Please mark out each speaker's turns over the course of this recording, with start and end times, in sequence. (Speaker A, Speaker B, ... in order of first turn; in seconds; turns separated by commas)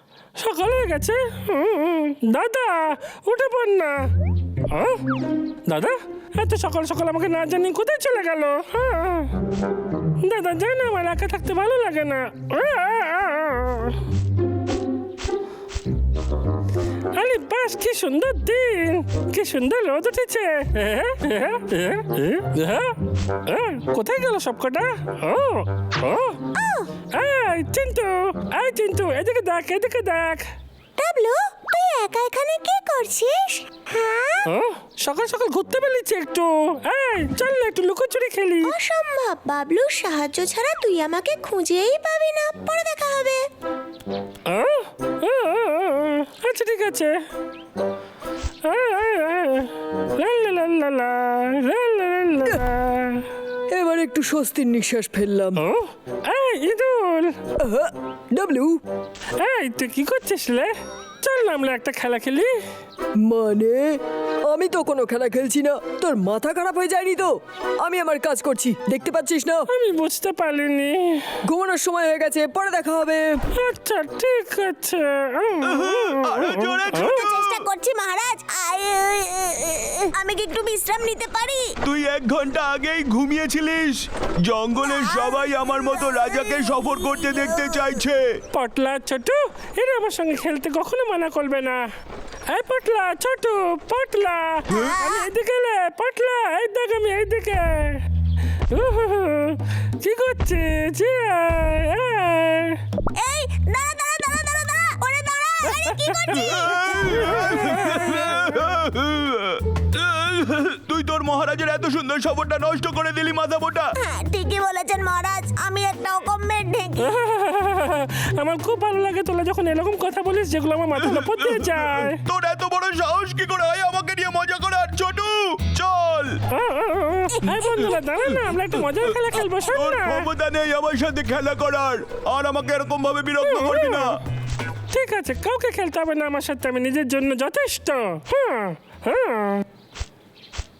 Speaker A: 0.4-4.1, Speaker A: 4.7-5.0, Speaker A: 5.7-9.3, Speaker A: 10.2-14.0, Speaker A: 17.1-26.4, Speaker B: 26.5-26.9, Speaker A: 27.1-30.4, Speaker B: 31.0-34.5, Speaker A: 34.5-38.7, Speaker B: 38.6-43.5, Speaker A: 44.5-47.1, Speaker A: 48.6-53.3, Speaker C: 53.7-55.6, Speaker A: 55.6-57.4, Speaker C: 57.6-58.8, Speaker A: 59.4-62.5, Speaker C: 63.2-69.7, Speaker A: 69.7-71.3, Speaker C: 71.4-73.4, Speaker A: 73.5-77.2, Speaker D: 75.6-77.6, Speaker B: 76.9-81.7, Speaker D: 81.8-88.4, Speaker B: 84.9-85.3, Speaker B: 86.1-86.7, Speaker A: 88.5-91.8, Speaker A: 92.5-98.0, Speaker B: 94.7-95.2, Speaker A: 98.7-102.8, Speaker B: 103.1-107.8, Speaker D: 106.3-113.9, Speaker B: 114.0-117.1, Speaker A: 117.0-122.2, Speaker D: 121.0-126.4, Speaker A: 126.5-130.3, Speaker D: 128.8-129.2, Speaker D: 129.7-134.2, Speaker A: 133.4-134.1, Speaker A: 134.9-139.6